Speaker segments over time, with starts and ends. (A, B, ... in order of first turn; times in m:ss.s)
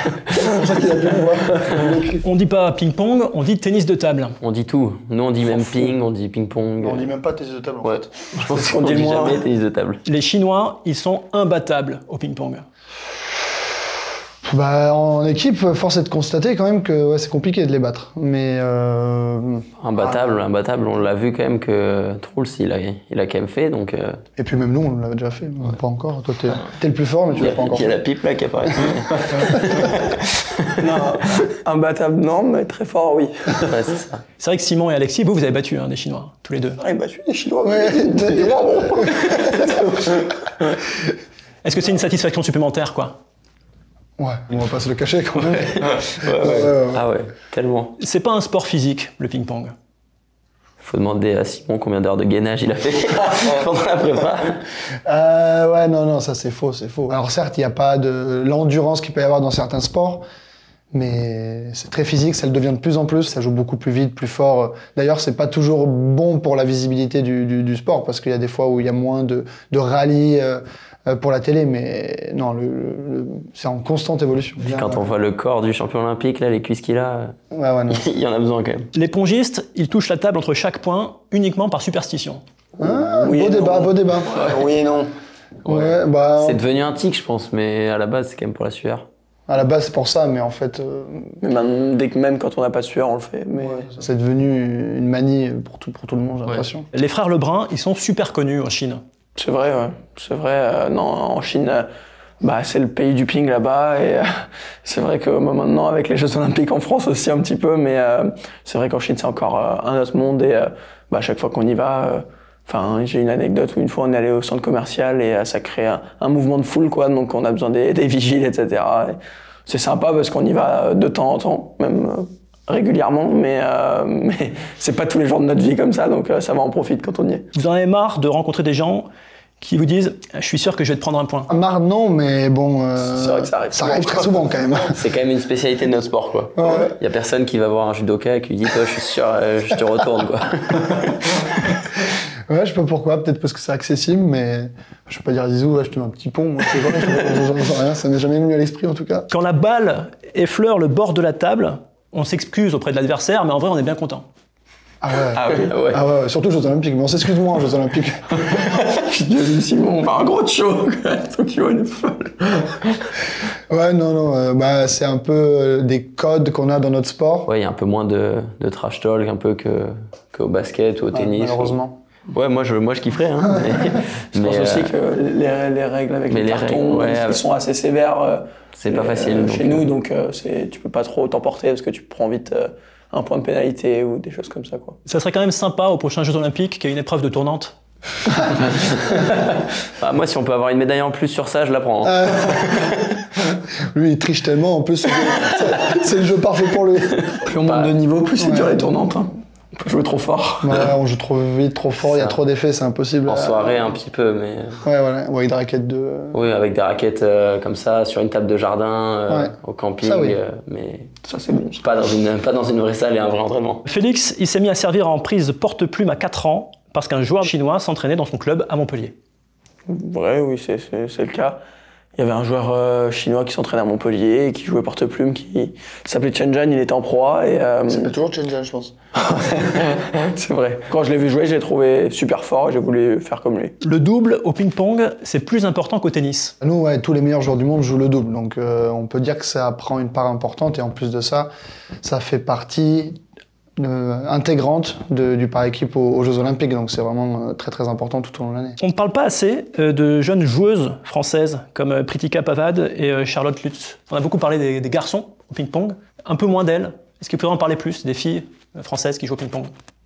0:00.4-0:02.2 A
0:02.2-0:04.4 B
0:04.4-0:07.1 C
0:06.8-0:08.3 A
0:07.8-0:10.0 C
0:08.5-0:09.4 D
0:10.0-0:12.7 B
0:14.5-0:20.5 A
0:19.8-0:24.2 C
0:24.4-0:28.0 A
0:27.4-0:30.6 C
0:28.7-0:29.9 A
0:30.8-0:33.8 D
0:33.7-0:34.2 C
0:34.4-0:36.8 B
0:36.8-0:40.8 D
0:37.6-0:39.4 A
0:41.6-0:43.2 B
0:44.2-0:47.0 A
0:45.4-0:47.9 C
0:48.0-0:49.7 B
0:50.8-0:54.6 C
0:55.0-1:00.2 A
1:00.9-1:15.2 A
1:14.6-1:17.3 C
1:17.5-1:18.1 A
1:17.9-1:18.9 C
1:18.9-1:22.4 B
1:22.8-1:24.5 A
1:23.2-1:25.1 D
1:25.6-1:26.6 A
1:25.6-1:29.0 C
1:29.5-1:31.4 A
1:31.4-1:33.9 D
1:33.6-1:36.9 A
1:36.9-1:39.0 B
1:39.4-1:41.9 D
1:42.4-1:44.3 D
1:44.8-2:07.4 D
2:07.5-2:09.1 B
2:09.6-2:11.5 B
2:11.5-2:15.0 A
2:13.0-2:14.6 D
2:15.0-2:21.4 C
2:16.6-2:16.9 A
2:22.5-2:29.3 A
2:29.3-2:34.2 B
2:35.0-2:38.4 A
2:35.3-2:35.8 D
2:35.7-2:36.0 C
2:38.6-2:43.1 D
2:43.7-2:47.5 A
2:47.5-2:51.8 C
2:51.1-2:51.9 A
2:52.3-2:54.9 C
2:54.4-3:05.0 D
2:56.3-2:57.4 C
2:58.7-2:59.9 C
3:05.1-3:07.8 B
3:10.0-3:13.2 C
3:12.0-3:13.0 A
3:13.9-3:17.4 A
3:17.4-3:20.9 D
3:17.6-3:18.0 C
3:18.4-3:18.8 A
3:20.6-3:24.0 A
3:22.0-3:22.4 C
3:23.3-3:24.8 C
3:24.8-3:26.4 A
3:26.3-3:31.1 C
3:29.3-3:30.4 A
3:31.3-3:31.8 D
3:31.8-3:33.8 C
3:33.8-3:39.2 B
3:39.9-3:41.6 D
3:42.2-3:48.1 D
3:47.9-3:48.9 A
3:49.2-3:53.7 D
3:53.8-3:56.5 B
3:56.6-4:01.5 A
4:02.0-4:03.2 A
4:03.8-4:08.8 A
4:08.8-4:19.7 B